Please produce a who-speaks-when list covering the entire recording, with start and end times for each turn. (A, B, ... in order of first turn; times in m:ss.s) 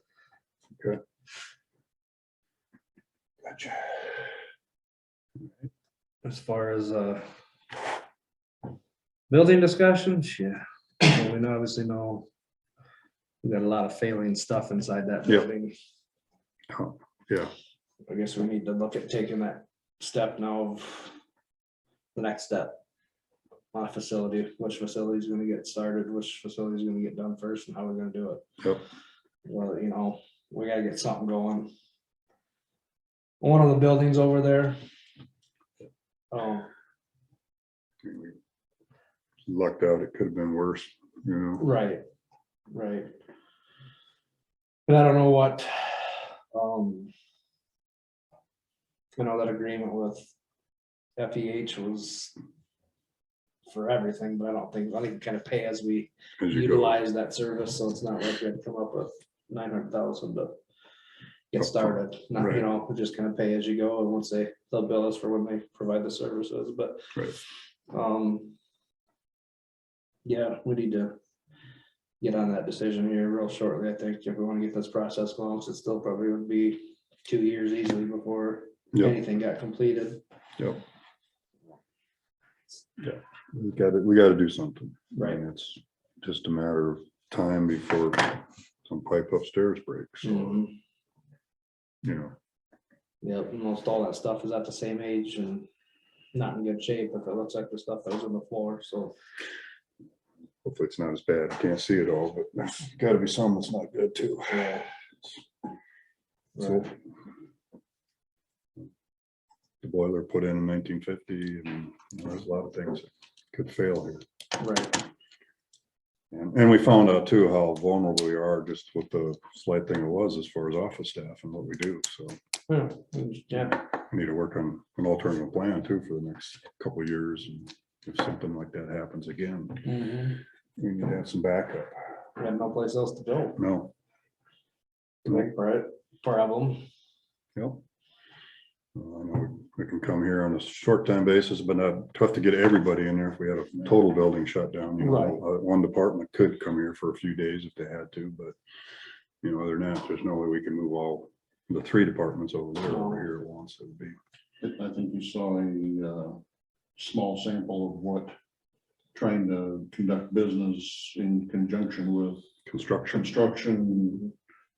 0:03.5-0:04.2 A
0:06.2-0:07.3 B
0:09.3-0:12.3 B
0:13.4-0:15.8 B
0:16.7-0:17.5 A
0:18.1-0:21.2 B
0:22.2-0:22.8 B
0:23.7-0:28.4 B
0:29.4-0:31.7 B
0:33.4-0:34.8 B
0:36.3-0:36.7 B
0:38.0-0:38.4 A
0:39.5-0:41.7 A
0:41.6-0:42.0 B
0:42.7-0:43.1 B
0:44.9-0:47.1 B
0:49.2-0:50.3 B
0:51.2-0:52.4 B
0:53.7-1:00.5 B
0:56.4-0:57.0 A
1:01.5-1:07.1 B
1:01.6-1:02.7 A
1:07.9-1:08.5 B
1:10.2-1:11.2 B
1:12.2-1:20.2 B
1:18.9-1:19.2 A
1:23.0-1:30.6 A
1:25.2-1:25.4 B
1:30.2-1:30.7 B
1:32.0-1:32.3 A
1:33.2-1:35.7 B
1:36.3-1:39.2 B
1:40.6-1:44.9 A
1:44.5-1:44.9 B
1:46.6-1:46.9 B
1:46.6-1:46.9 A
1:49.8-1:54.2 A
1:54.6-1:55.0 B
1:56.3-2:02.4 A
2:02.7-2:03.8 B
2:03.6-2:09.9 A
2:09.8-2:10.4 B
2:10.8-2:12.0 A
2:12.4-2:13.6 B
2:13.6-2:13.9 A
2:15.3-2:16.8 B
2:17.6-2:17.8 A
2:19.0-2:28.6 A
2:25.0-2:25.4 B
2:29.4-2:34.2 A
2:32.9-2:33.3 B
2:34.6-2:36.4 C
2:37.0-2:38.3 C
2:39.1-2:42.4 C
2:42.7-2:43.3 A
2:43.1-2:44.3 C